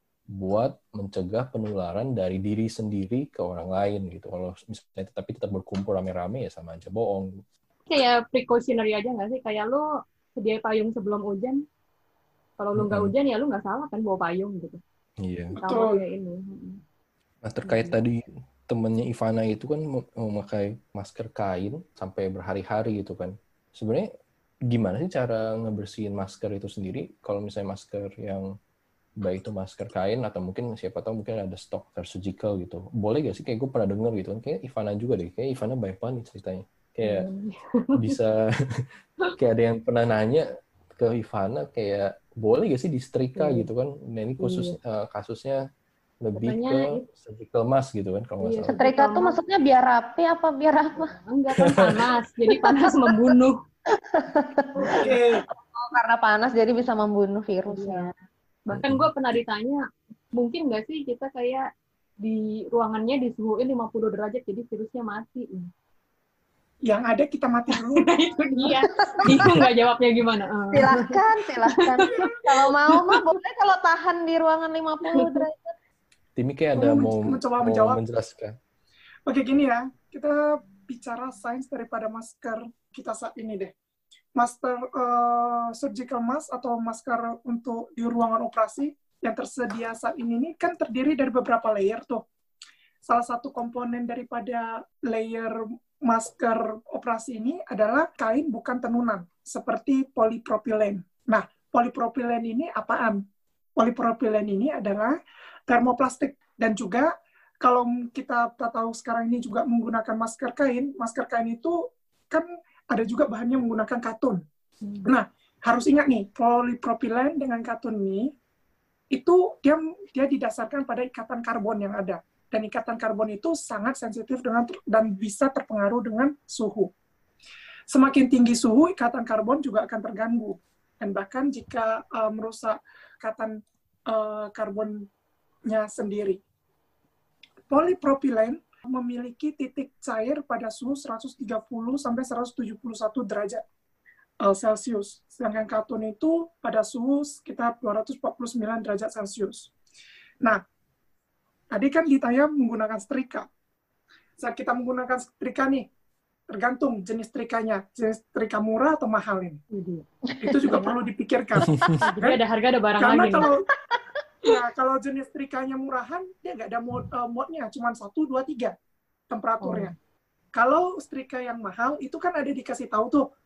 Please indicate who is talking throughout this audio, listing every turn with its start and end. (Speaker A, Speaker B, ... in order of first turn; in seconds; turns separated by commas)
Speaker A: 0.3-7.3, Speaker B: 7.9-9.8, Speaker B: 10.4-11.6, Speaker B: 12.6-14.8, Speaker A: 12.8-13.1, Speaker A: 15.2-15.5, Speaker C: 15.5-16.0, Speaker B: 15.6-16.8, Speaker A: 17.4-24.1, Speaker B: 17.6-17.9, Speaker A: 24.7-28.5, Speaker A: 29.2-37.3, Speaker B: 37.0-38.1, Speaker A: 38.0-45.6, Speaker B: 43.4-43.7, Speaker B: 44.4-44.8, Speaker A: 46.2-48.8, Speaker B: 46.4-47.0, Speaker B: 48.4-49.4, Speaker D: 48.7-51.1, Speaker B: 51.0-53.6, Speaker A: 51.6-52.1, Speaker D: 52.5-53.1, Speaker D: 53.9-58.1, Speaker C: 55.0-55.4, Speaker B: 57.7-58.1, Speaker B: 58.6-59.8, Speaker A: 58.7-59.1, Speaker B: 60.3-61.7, Speaker B: 62.2-65.7, Speaker C: 66.8-68.1, Speaker B: 68.0-71.1, Speaker D: 68.8-69.5, Speaker D: 70.7-75.7, Speaker B: 71.8-72.3, Speaker B: 72.9-73.2, Speaker B: 75.1-75.4, Speaker A: 76.3-78.5, Speaker C: 76.7-78.0, Speaker C: 79.3-83.7, Speaker C: 84.3-92.2, Speaker C: 93.0-103.2, Speaker C: 103.8-105.2, Speaker C: 105.7-107.1, Speaker C: 107.6-111.8, Speaker C: 112.3-114.4, Speaker B: 114.8-115.1, Speaker C: 115.0-118.3, Speaker C: 119.1-126.9, Speaker C: 127.9-133.6, Speaker C: 134.1-135.1, Speaker C: 135.7-136.4, Speaker C: 137.7-143.6, Speaker C: 144.4-149.7, Speaker C: 151.7-153.4, Speaker C: 154.4-155.9, Speaker C: 156.5-159.6, Speaker B: 159.7-160.1, Speaker D: 160.3-160.8, Speaker C: 160.4-162.4, Speaker B: 160.7-161.0, Speaker A: 161.6-162.0, Speaker D: 161.8-162.1, Speaker B: 162.1-163.5, Speaker C: 163.0-163.6, Speaker D: 163.4-164.0, Speaker C: 164.4-168.7, Speaker C: 169.3-169.9, Speaker B: 169.6-169.9, Speaker C: 170.5-173.2